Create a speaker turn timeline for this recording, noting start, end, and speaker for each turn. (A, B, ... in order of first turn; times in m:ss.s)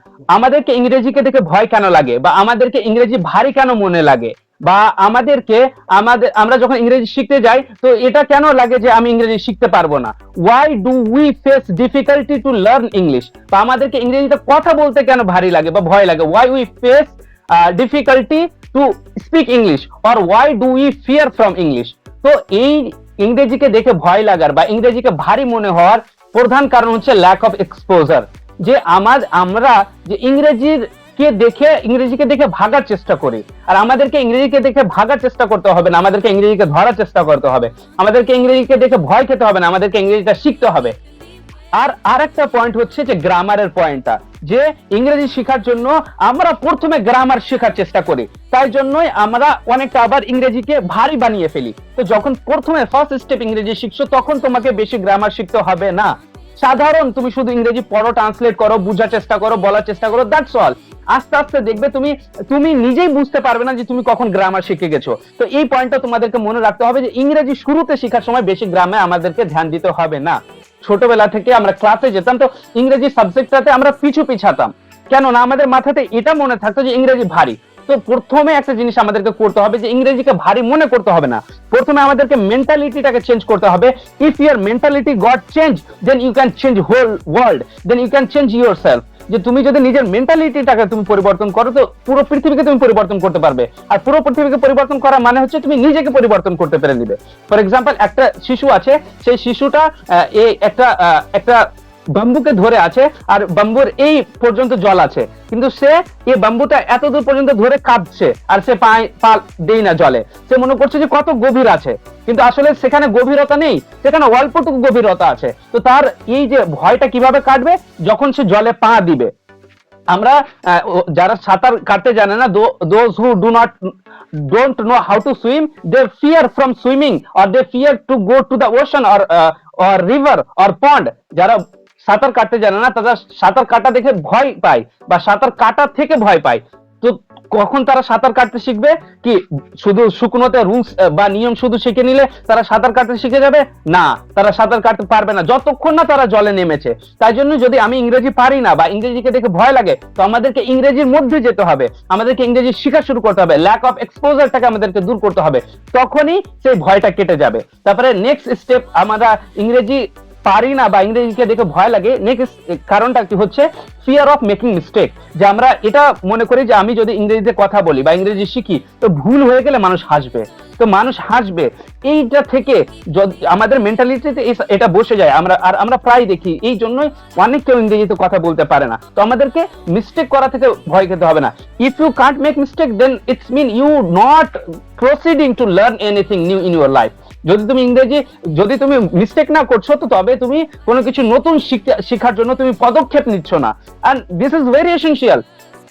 0:00.3-0:40.9 A
0:41.8-1:59.3 A
2:00.1-2:03.8 A
2:04.4-3:15.4 A